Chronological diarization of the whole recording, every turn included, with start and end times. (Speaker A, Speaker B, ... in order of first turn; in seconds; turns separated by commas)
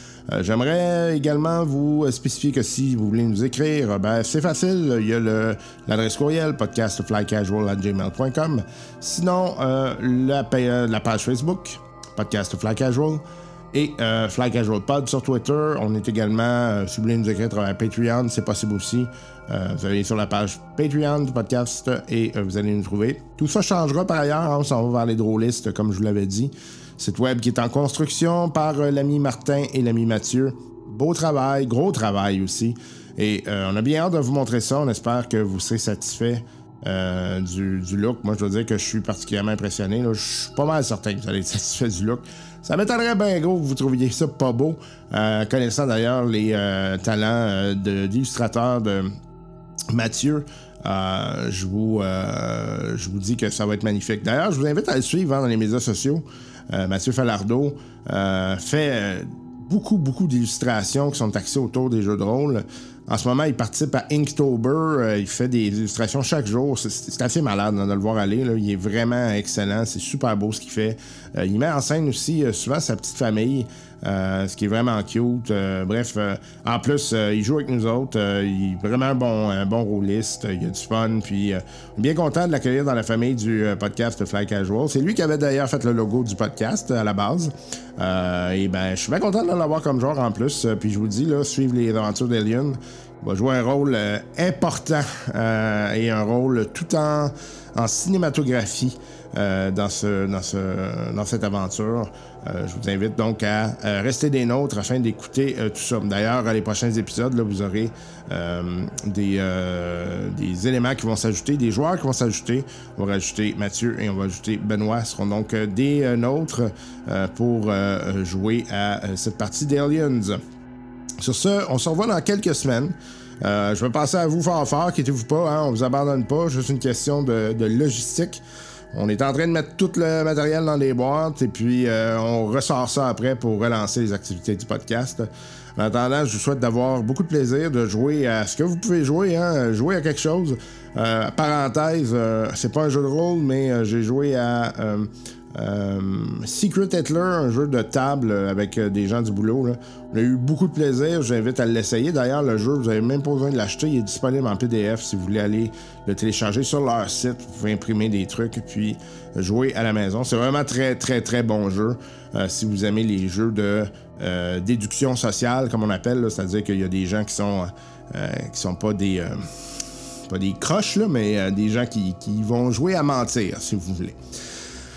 Speaker A: 0.3-49.1, Speaker A: 49.9-120.4, Speaker A: 121.2-174.6